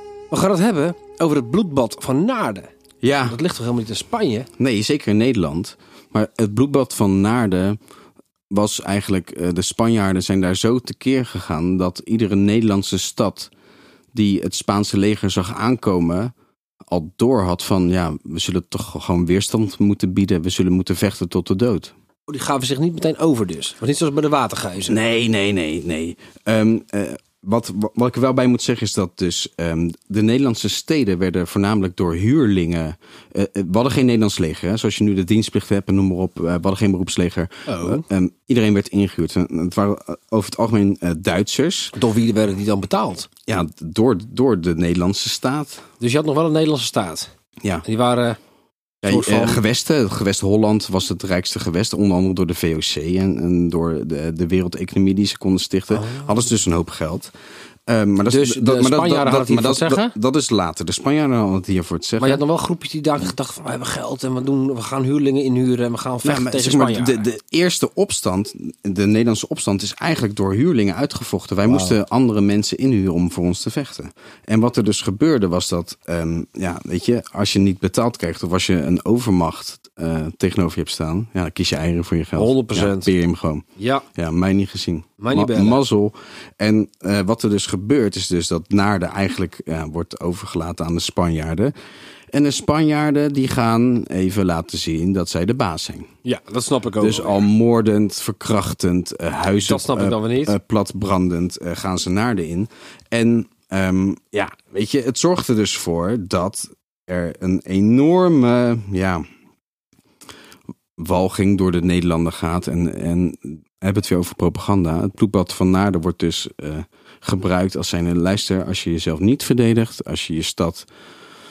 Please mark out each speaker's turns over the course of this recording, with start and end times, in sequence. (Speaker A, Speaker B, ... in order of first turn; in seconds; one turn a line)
Speaker A: 0.3-2.7
Speaker B: 3.0-3.4
Speaker A: 3.2-4.5
Speaker B: 4.6-7.8
Speaker B: 8.5-13.5
Speaker B: 14.1-16.3
Speaker B: 16.9-21.9
Speaker A: 22.3-25.0
Speaker B: 24.9-42.0
Speaker A: 37.7-38.0
Speaker A: 41.9-43.3
Speaker B: 43.5-45.9
Speaker A: 46.0-47.3
Speaker A: 47.9-48.4
Speaker B: 49.0-57.3
Speaker A: 49.0-49.6
Speaker A: 55.9-56.4
Speaker B: 57.9-62.4
Speaker A: 58.3-60.1
Speaker A: 62.2-67.2
Speaker B: 66.2-83.7
Speaker A: 71.7-72.0
Speaker A: 82.4-83.1
Speaker A: 83.8-84.1
Speaker B: 84.2-91.7
Speaker A: 85.2-85.8
Speaker B: 92.3-96.1
Speaker A: 96.2-97.5
Speaker B: 97.0-109.2
Speaker A: 99.7-100.6
Speaker B: 111.0-120.9